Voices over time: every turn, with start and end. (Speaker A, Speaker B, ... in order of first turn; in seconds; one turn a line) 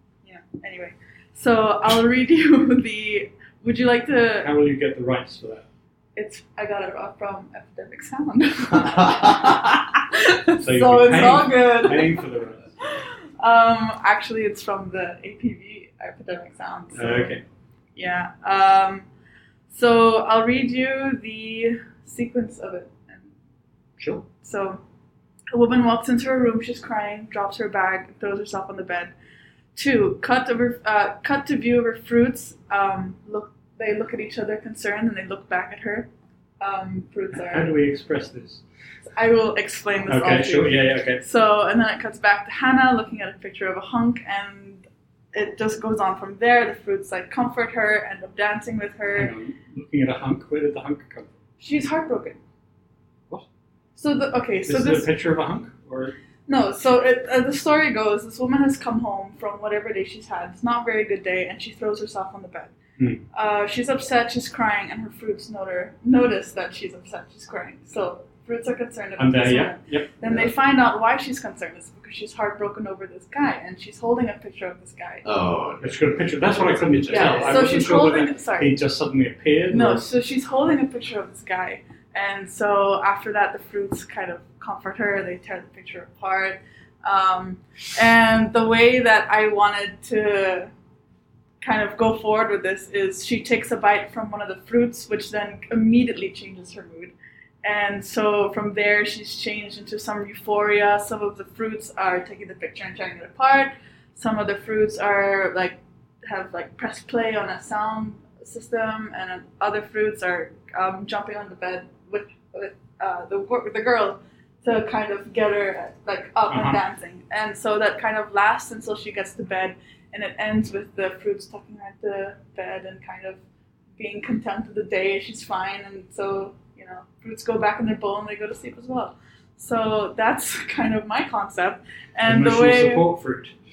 Speaker A: 0.2-4.5
Speaker B: 4.4-5.7
Speaker A: 6.2-12.2
Speaker B: 10.6-12.7
Speaker A: 13.4-17.4
Speaker B: 16.9-17.4
Speaker A: 18.0-19.1
Speaker A: 19.7-23.3
Speaker B: 24.0-24.2
Speaker A: 24.4-24.8
Speaker A: 25.5-29.1
Speaker A: 29.8-36.1
Speaker A: 36.6-37.7
Speaker B: 37.3-38.6
Speaker A: 39.1-49.3
Speaker B: 40.1-41.2
Speaker B: 49.1-51.4
Speaker A: 51.6-52.4
Speaker A: 54.0-55.1
Speaker B: 54.7-56.1
Speaker A: 56.5-62.8
Speaker A: 63.3-75.3
Speaker B: 69.2-70.1
Speaker C: 70.2-70.5
Speaker C: 75.2-77.8
Speaker B: 75.8-80.1
Speaker A: 77.1-78.8
Speaker A: 79.7-90.7
Speaker A: 91.6-123.4
Speaker B: 116.5-116.8
Speaker A: 124.0-133.1
Speaker B: 132.2-133.5